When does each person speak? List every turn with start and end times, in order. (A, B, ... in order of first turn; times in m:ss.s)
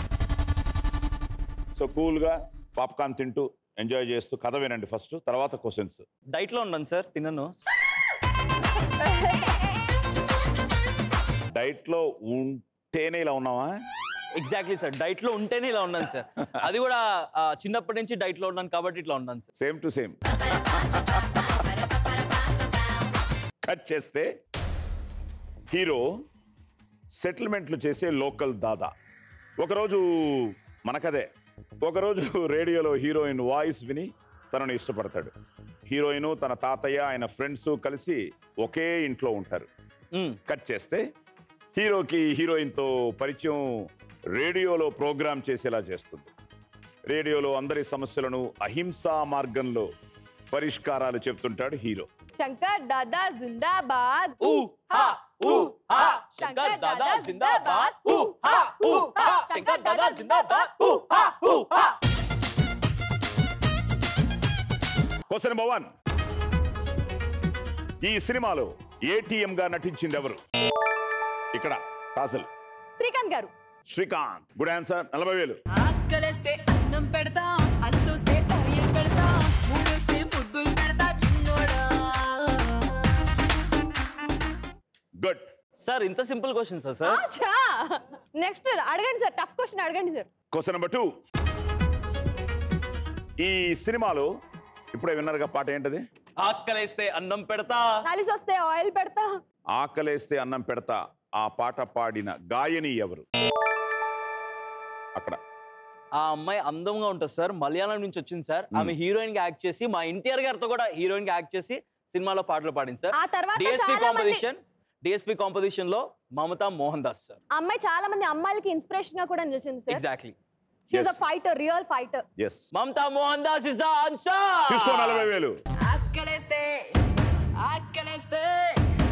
0:01.8-0:06.0 A
0:06.3-0:07.5 B
0:11.5-0:13.8 A
0:14.4-0:19.5 B
0:19.6-0:20.2 A
0:20.9-0:21.5 A
0:21.6-0:22.7 C
0:23.6-0:24.3 A
0:25.7-0:26.1 A
0:27.2-0:28.9 A
0:29.6-0:31.3 A
0:31.8-0:35.3 A
0:35.9-0:39.7 A
0:40.1-0:40.4 B
0:40.5-0:41.0 A
0:41.8-0:46.3 A
0:47.1-0:49.9 A
0:50.5-0:52.1 A
0:52.4-1:00.9 D
0:54.4-1:02.0 B
1:05.3-1:05.9 A
1:08.0-1:10.4 A
1:11.5-1:12.5 A
1:13.0-1:13.5 D
1:13.9-1:15.6 A
1:15.8-1:22.8 C
1:25.8-1:27.2 B
1:27.1-1:30.3 D
1:30.5-1:31.1 A
1:33.4-1:34.3 A
1:34.9-1:36.0 A
1:36.4-1:37.8 B
1:38.0-1:39.3 D
1:39.7-1:43.2 A
1:46.2-1:57.4 B
1:53.1-1:54.4 D
1:57.5-2:00.0 D
1:59.9-2:00.4 B
2:00.9-2:02.2 D
2:00.9-2:01.2 A
2:02.4-2:02.6 A
2:02.7-2:05.3 B
2:04.7-2:05.6 A
2:05.8-2:08.8 C